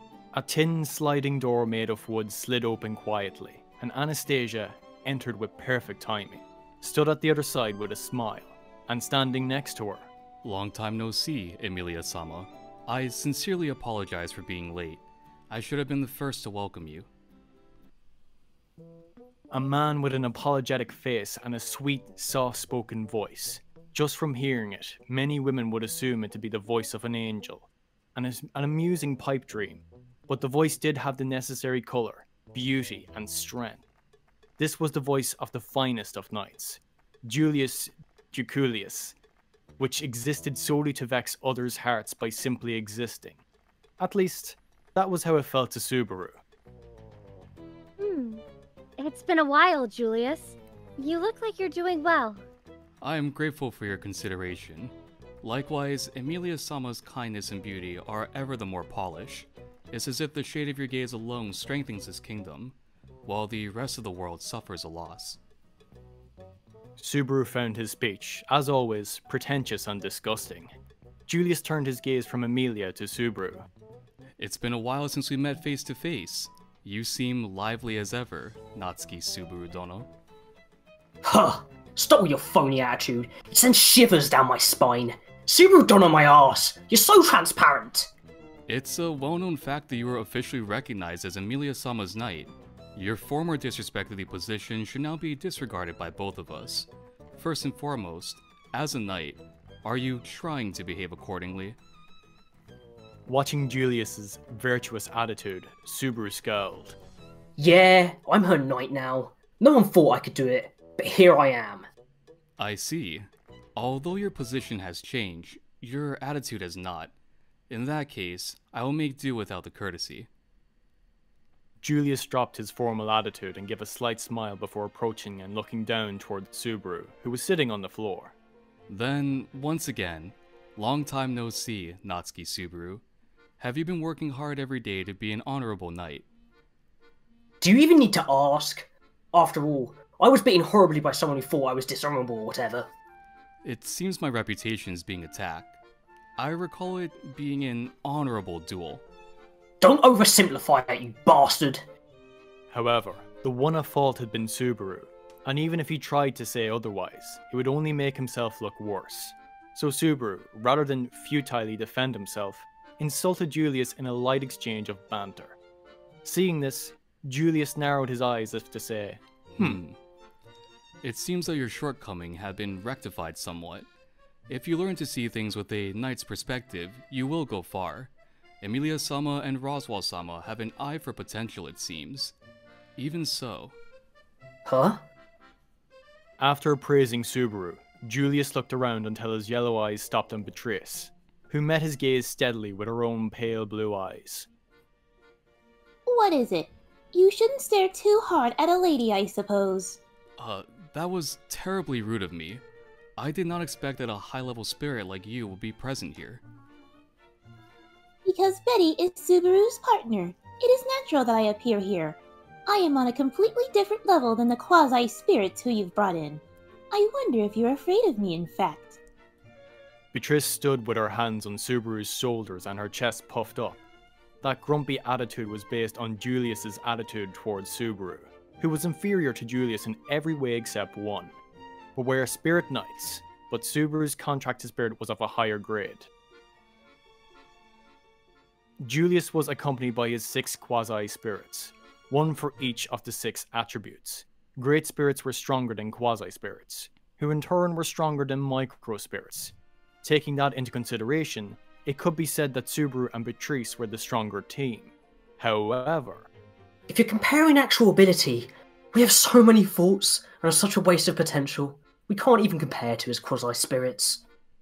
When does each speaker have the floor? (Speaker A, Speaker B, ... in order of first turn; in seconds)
Speaker A: 0.3-10.1, 19.5-33.8, 34.6-39.1, 39.8-43.4, 44.0-46.4, 67.0-70.7, 71.3-73.7, 103.3-106.9, 121.8-128.3, 152.7-165.6, 166.2-169.8, 186.4-194.5, 220.1-223.8, 224.4-231.3, 231.9-236.1, 238.8-256.3
Speaker B: 10.4-17.1, 53.0-65.4, 74.4-80.1, 88.7-101.8, 112.6-117.1, 117.7-120.3, 128.9-133.0, 133.6-136.2, 143.6-145.8, 146.4-149.0, 169.5-170.0, 171.0-173.9, 174.5-182.3, 183.0-183.7, 200.4-202.6, 203.2-206.4
Speaker C: 48.0-48.4, 49.0-52.4
Speaker D: 81.2-88.1, 107.6-111.9, 137.6-142.9, 149.8-151.8, 184.6-185.0, 256.9-264.2
Speaker E: 196.1-200.0, 208.2-219.0